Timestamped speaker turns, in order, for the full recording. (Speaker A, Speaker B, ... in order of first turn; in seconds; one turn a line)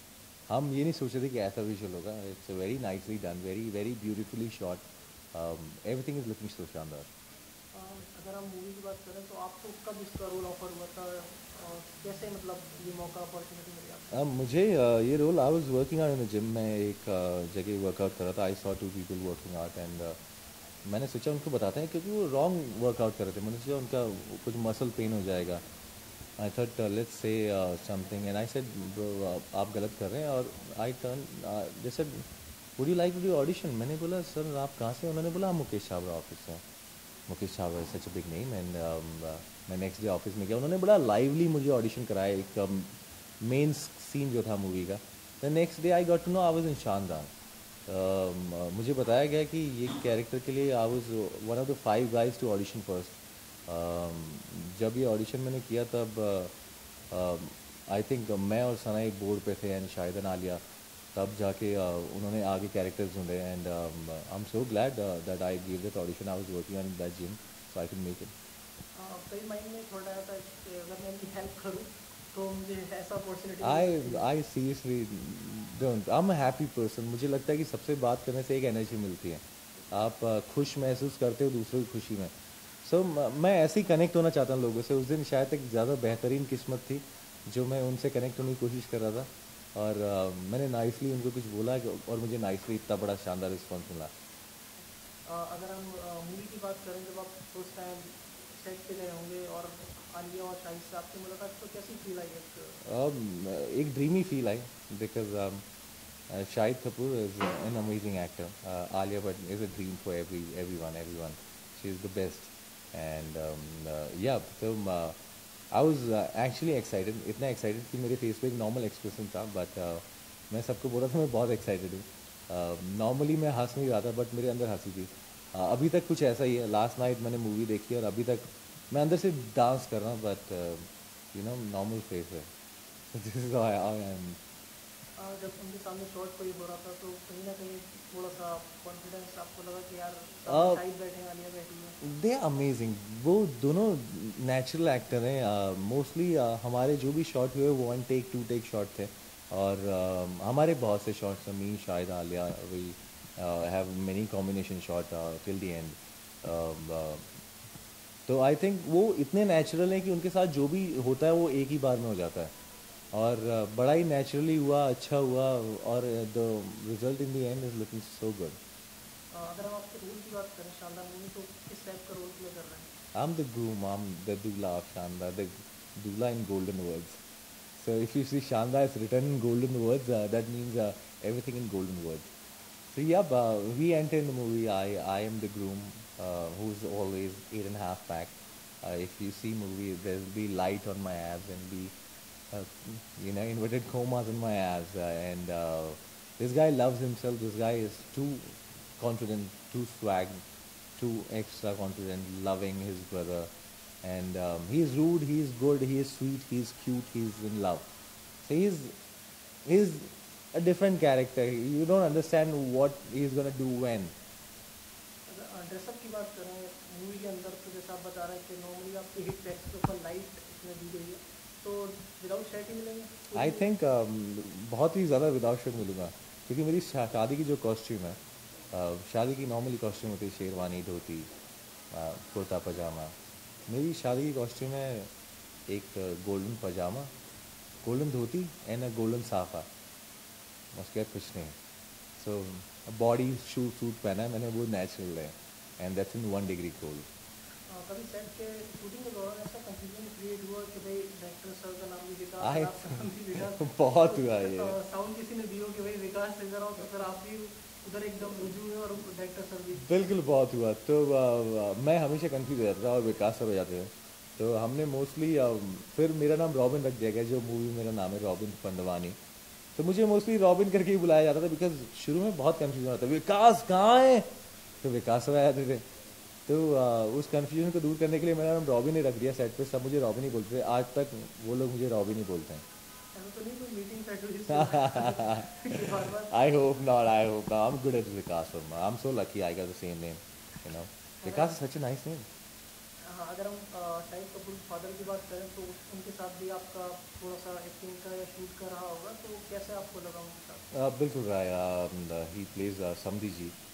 Speaker A: 0.5-4.8
Speaker A: 5.3-7.1
Speaker B: 7.7-14.2
Speaker A: 14.1-20.2
Speaker A: 20.8-25.6
Speaker A: 26.4-32.3
Speaker A: 32.8-36.6
Speaker A: 37.3-47.3
Speaker A: 47.9-53.1
Speaker A: 53.7-56.5
Speaker A: 57.1-60.6
Speaker A: 61.1-68.3
Speaker B: 68.9-74.3
Speaker A: 73.6-94.1
Speaker B: 95.2-102.8
Speaker A: 102.8-105.6
Speaker A: 106.3-115.2
Speaker A: 115.7-132.5
Speaker A: 133.1-134.4
Speaker B: 135.2-142.0
Speaker A: 140.5-140.8
Speaker A: 142.0-157.3
Speaker A: 158.3-162.5
Speaker A: 163.1-168.6
Speaker B: 169.3-172.9
Speaker A: 173.1-177.2
Speaker A: 177.7-182.3
Speaker A: 182.9-191.9
Speaker A: 192.5-200.4
Speaker A: 201.0-203.5
Speaker A: 204.0-207.9
Speaker A: 208.4-208.9
Speaker A: 209.6-214.1
Speaker B: 215.3-223.7
Speaker A: 223.3-228.2
Speaker A: 228.7-231.3
Speaker A: 231.9-233.1
Speaker A: 233.7-235.1
Speaker A: 235.7-237.1
Speaker A: 237.8-239.7
Speaker A: 240.7-241.6
Speaker A: 242.2-247.1
Speaker B: 247.7-259.9
Speaker A: 252.4-254.8
Speaker A: 259.8-269.2
Speaker A: 269.8-274.3
Speaker A: 274.8-275.8
Speaker A: 276.5-282.6
Speaker B: 283.1-286.4
Speaker A: 284.5-292.3
Speaker B: 291.2-291.6
Speaker B: 293.0-300.7
Speaker A: 300.7-303.6